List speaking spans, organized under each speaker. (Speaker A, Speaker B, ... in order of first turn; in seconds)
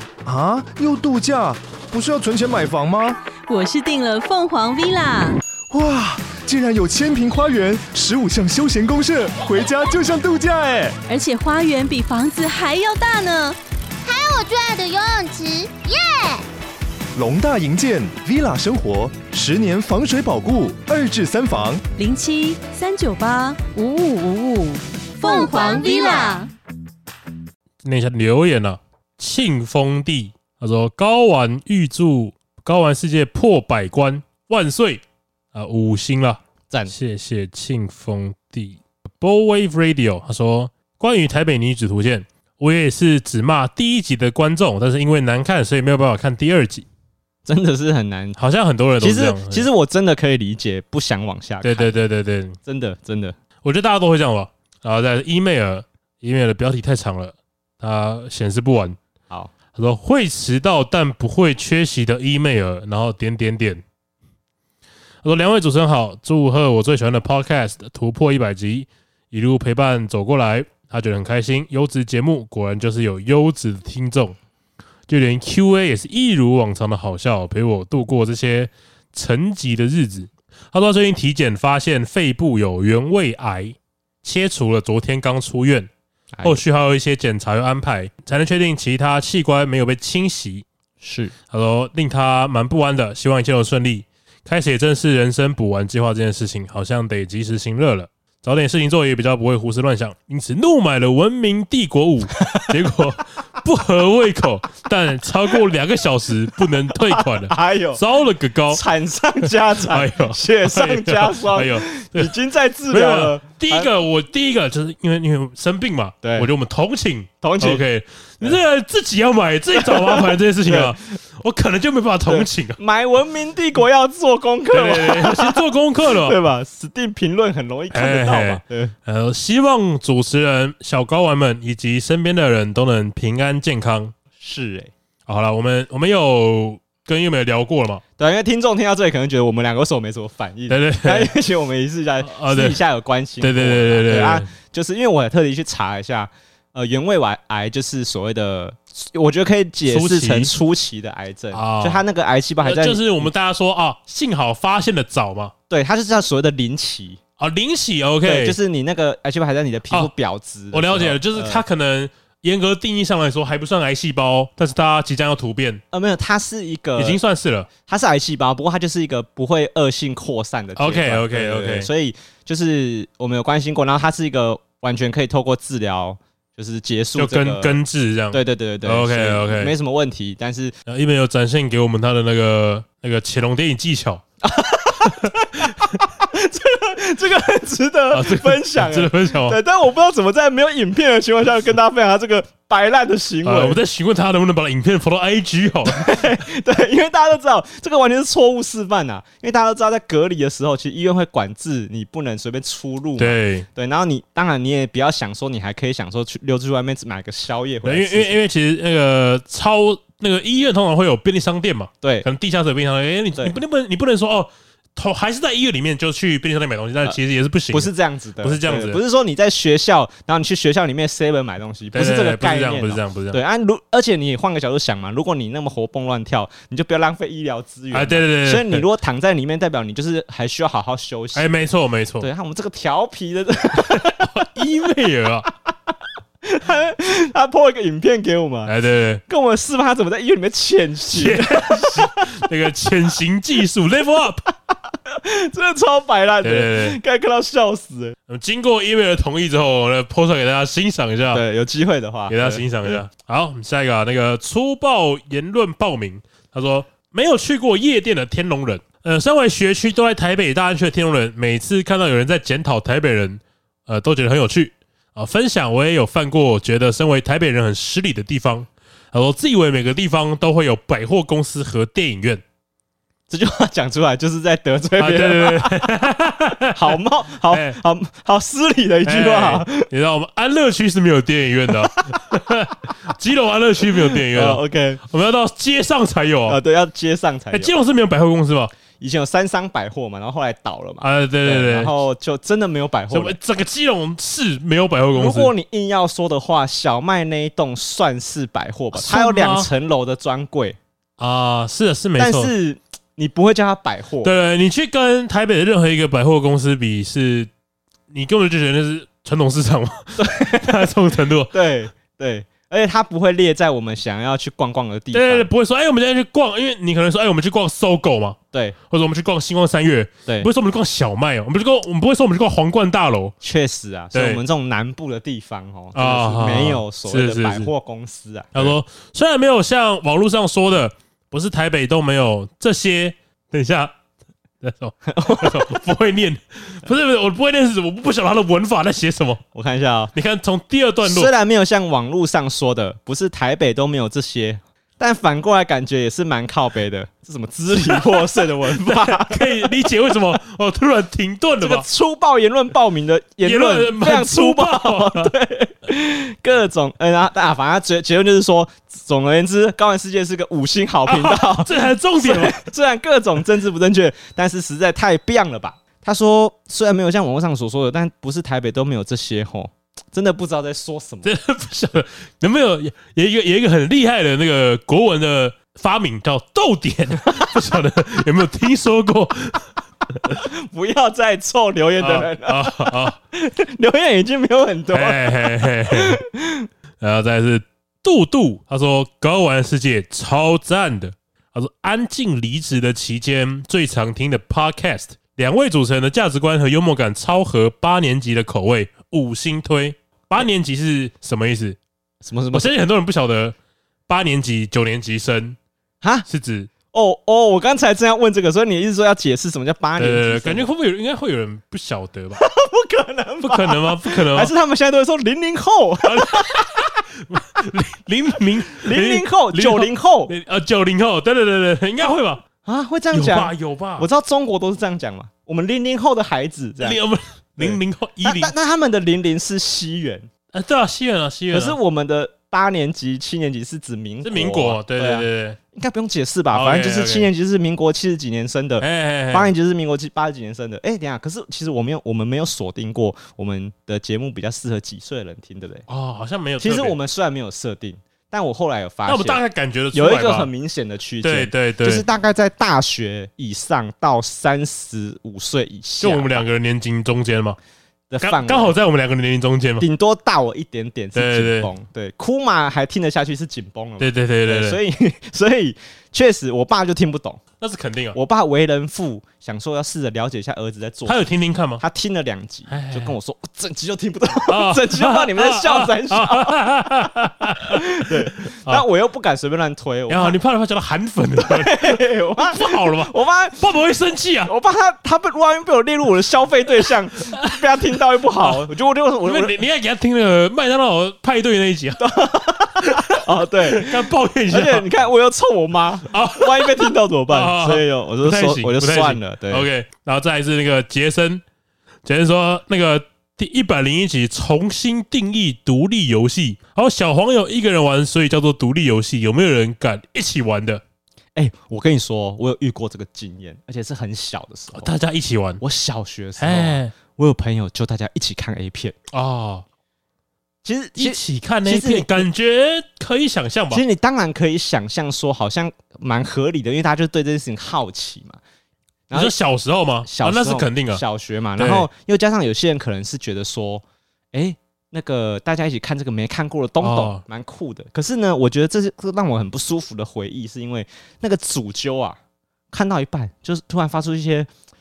Speaker A: 0.2-3.2, 5.7-11.0, 17.1-21.8
Speaker B: 3.5-5.4, 11.1-13.6, 22.0-26.5
Speaker C: 14.0-16.4, 25.2-26.4
Speaker D: 27.8-35.0, 35.5-46.9, 48.4-49.7, 51.6-52.6, 53.6-59.0, 59.7-63.8, 65.2-74.3, 75.1-85.9, 86.4-90.7, 91.5-108.8, 109.8-112.3, 112.9-122.8, 124.7-126.4, 127.9-134.1, 135.3-138.0, 140.7-141.3, 142.2-142.8, 143.4-144.5, 149.9-150.5, 151.5-152.0, 152.6-155.5, 157.4-158.6, 160.7-165.8, 167.0-167.7, 170.8-171.9, 177.2-179.7, 180.9-184.2, 188.1-189.6, 193.4-196.3, 203.2-203.7, 207.8-219.0, 221.9-223.4, 227.9-228.8, 231.3-232.3, 234.1-235.5, 238.7-239.2, 241.1-244.4, 246.4-247.0, 248.3-251.4, 252.3-272.4, 275.0-277.0, 277.5-277.8, 279.1-286.6, 287.5-288.7, 291.0-291.9, 293.1-295.5, 298.9-299.7, 301.2-302.5, 304.2-307.5, 308.1-311.5, 315.1-318.4, 318.9-323.4, 324.1-324.4, 325.9-327.7, 328.5-333.9, 334.6-339.4, 340.1-341.3, 347.8-351.9, 353.4-355.3, 361.1-362.6, 371.2-379.6, 382.0-383.2, 384.9-386.2, 387.0-401.8, 402.5-403.6, 404.1-405.6, 406.3-406.7, 410.0-412.4, 413.5-414.5, 416.1-422.4, 423.1-424.1, 426.8-428.5, 430.5-431.8, 434.2-435.6, 436.5-437.3, 438.8-439.5, 445.9-446.9, 449.1-450.5, 451.2-452.0, 456.0-457.6, 458.2-459.9, 461.1-461.7, 464.0-464.8, 467.6-468.2, 471.1-471.8, 472.7-473.2, 474.5-478.8, 480.1-484.5, 488.4-488.7, 489.2-492.1, 492.8-494.9, 496.1-501.4, 502.1-510.8, 514.8-515.6, 516.4-516.9, 519.1-519.6, 521.0-523.8, 529.1-531.0, 531.6-531.9, 536.8-537.2
Speaker E: 47.5-48.4, 49.0-51.9, 52.6-53.4, 86.4-86.6, 91.0-91.3, 102.4-102.7, 107.1-108.0, 108.7-113.9, 116.2-116.5, 117.4-117.8, 119.8-121.0, 122.3-125.6, 126.2-128.9, 134.4-134.9, 138.2-153.3, 155.7-157.2, 158.2-161.6, 165.9-167.2, 167.9-177.8, 178.3-180.8, 184.4-193.8, 195.9-208.4, 212.0-212.3, 217.7-231.7, 232.2-234.3, 236.4-238.7, 239.3-242.4, 245.1-248.2, 251.3-253.0, 273.3-275.9, 276.7-279.9, 284.3-285.0, 286.5-287.7, 289.0-293.4, 295.1-300.8, 302.2-304.3, 310.2-310.9, 311.5-315.5, 323.4-328.8, 335.1-335.8, 339.6-340.1, 341.0-349.7, 351.6-371.3, 380.3-386.7, 402.2-402.7, 406.0-406.3, 406.9-410.7, 412.4-416.8, 418.8-420.3, 422.6-427.0, 427.6-430.3, 431.5-445.9, 446.6-449.4, 449.9-456.4, 458.1-458.7, 459.8-467.4, 468.1-471.2, 471.8-477.1, 477.6-480.4, 481.4-483.6, 484.4-489.6, 492.0-499.7, 511.4-514.9, 515.6-519.0, 520.6-522.3, 523.7-528.4, 530.0-542.2, 542.7-544.5